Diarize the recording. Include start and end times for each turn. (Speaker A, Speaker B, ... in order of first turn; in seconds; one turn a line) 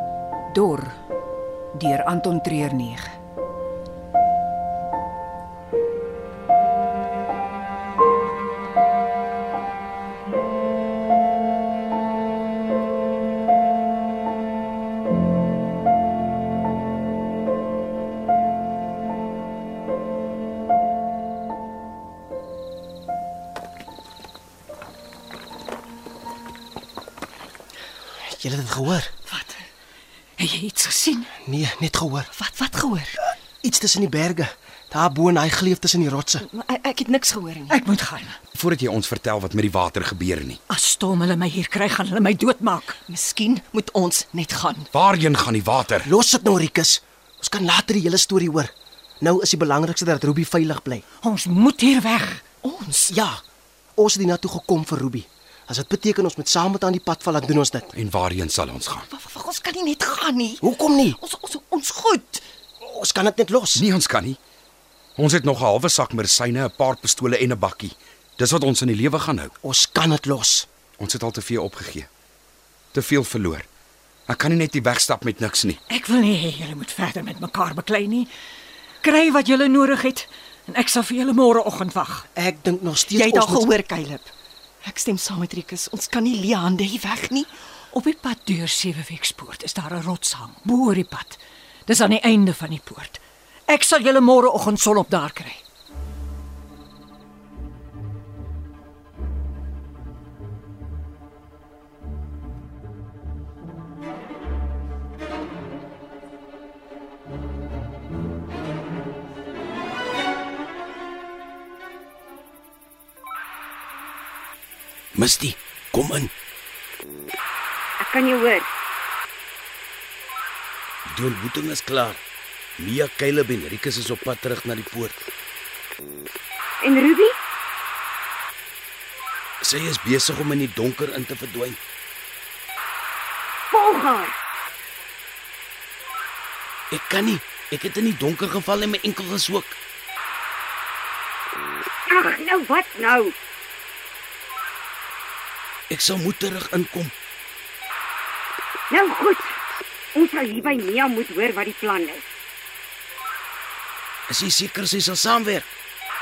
Speaker A: 0.5-1.0
Speaker A: 1.7-3.1
Speaker B: 28.2-29.1
Speaker C: 29.3-29.6
Speaker A: 30.4-31.3
Speaker B: 31.4-32.3
Speaker C: 32.3-33.2
Speaker B: 33.6-36.5
Speaker C: 36.4-37.8
Speaker A: 37.7-38.4
Speaker D: 38.6-40.6
Speaker A: 40.7-43.0
Speaker C: 43.1-44.9
Speaker D: 44.9-46.0
Speaker B: 46.0-51.0
Speaker A: 51.2-52.4
Speaker C: 52.6-53.1
Speaker B: 53.1-53.4
Speaker B: 54.0-57.9
Speaker D: 58.0-59.1
Speaker C: 59.1-60.6
Speaker B: 60.6-61.2
Speaker C: 61.1-62.4
Speaker B: 62.8-63.8
Speaker D: 63.8-64.4
Speaker D: 65.2-69.5
Speaker B: 69.6-70.7
Speaker D: 71.0-72.1
Speaker D: 72.9-73.7
Speaker D: 74.3-75.8
Speaker A: 75.9-78.3
Speaker A: 79.0-82.3
Speaker B: 82.3-83.7
Speaker C: 83.1-84.3
Speaker C: 84.8-87.5
Speaker A: 87.9-95.6
Speaker E: 115.2-116.3
Speaker F: 118.0-118.7
Speaker E: 121.1-122.2
Speaker E: 122.8-125.2
Speaker F: 126.8-127.4
Speaker E: 129.6-131.8
Speaker F: 133.7-134.3
Speaker E: 136.9-139.8
Speaker F: 142.1-143.4
Speaker E: 145.9-147.1
Speaker F: 148.9-149.6
Speaker F: 150.1-152.3
Speaker E: 154.3-155.7